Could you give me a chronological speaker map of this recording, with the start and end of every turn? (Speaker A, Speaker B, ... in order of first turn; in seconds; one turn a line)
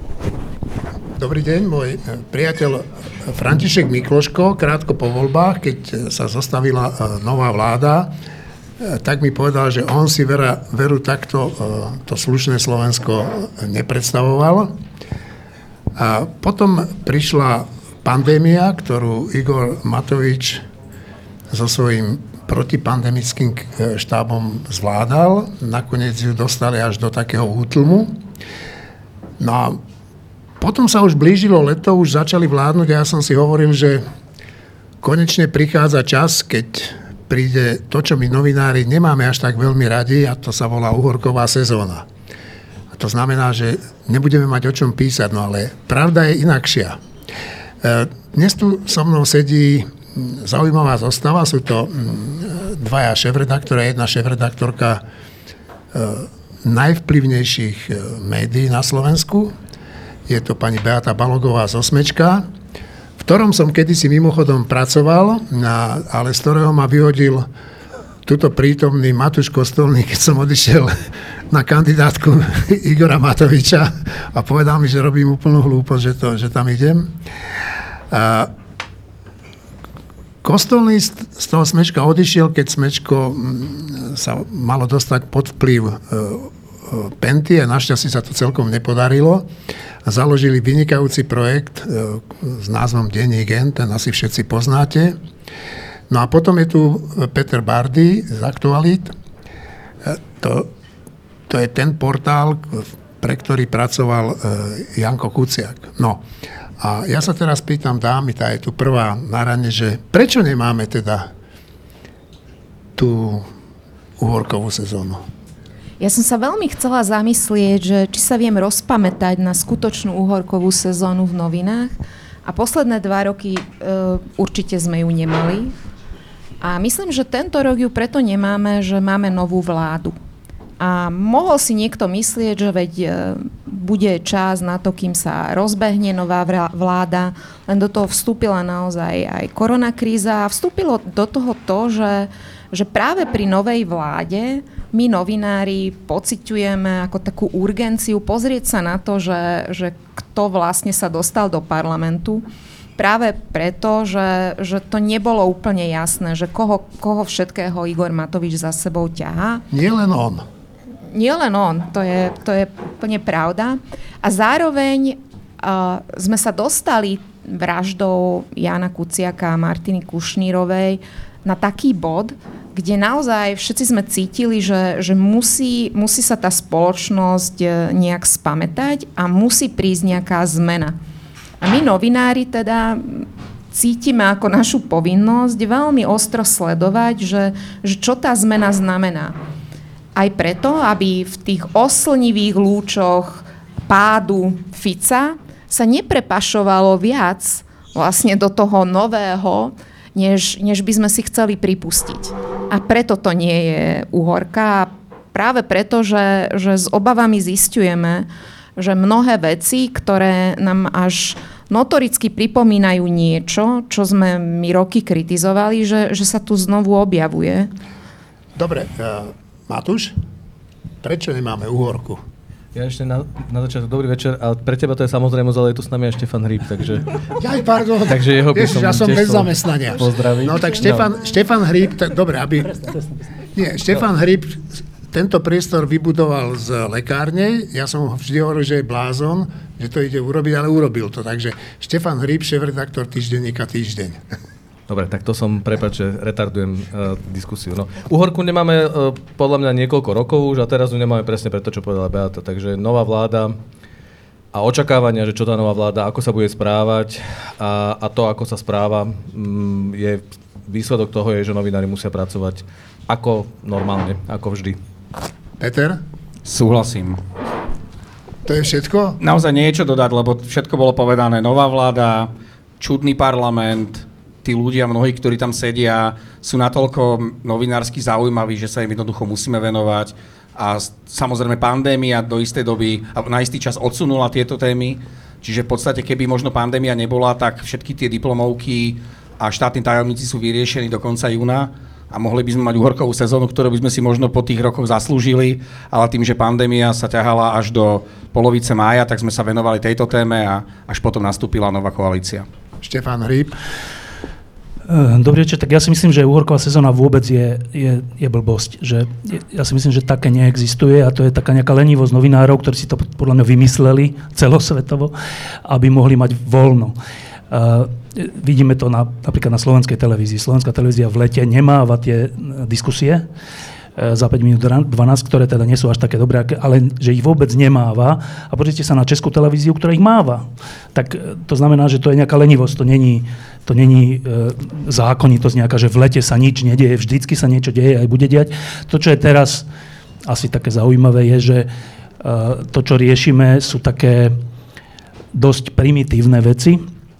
Speaker A: 1.1-8.1
Speaker A: 8.8-14.7
Speaker A: 16.0-20.6
Speaker A: 21.5-28.2
Speaker A: 29.4-29.8
Speaker A: 30.6-34.0
Speaker A: 35.0-42.1
Speaker A: 42.9-47.0
Speaker A: 47.8-55.0
Speaker A: 55.9-59.5
Speaker A: 60.3-62.5
Speaker A: 63.2-67.5
Speaker A: 68.2-70.9
Speaker A: 71.5-77.1
Speaker A: 78.1-78.5
Speaker A: 80.4-89.5
Speaker A: 90.0-95.2
Speaker A: 96.1-99.2
Speaker A: 100.0-100.7
Speaker A: 101.5-106.2
Speaker A: 106.8-111.3
Speaker A: 113.0-113.5
Speaker A: 114.2-115.2
Speaker B: 116.0-121.9
Speaker B: 122.5-125.7
Speaker B: 126.6-130.2
Speaker B: 130.8-152.4
Speaker B: 153.0-159.7
Speaker A: 159.7-160.4
Speaker B: 161.1-181.0
Speaker B: 181.6-189.4
Speaker B: 190.2-217.7
Speaker A: 218.6-220.1
Speaker A: 221.0-222.2
Speaker C: 222.7-227.1
Speaker A: 227.4-232.8
Speaker C: 228.1-231.1
Speaker A: 233.6-244.2
Speaker C: 244.9-253.6
Speaker C: 254.5-264.8
Speaker A: 265.6-266.0
Speaker D: 266.4-267.2
Speaker A: 268.4-269.2
Speaker D: 269.2-302.5
Speaker A: 302.8-303.6
Speaker E: 304.9-315.1
Speaker E: 315.7-317.0
Speaker E: 317.5-323.3
Speaker E: 324.0-339.7
Speaker E: 340.3-341.7
Speaker E: 342.2-344.4
Speaker E: 345.3-346.8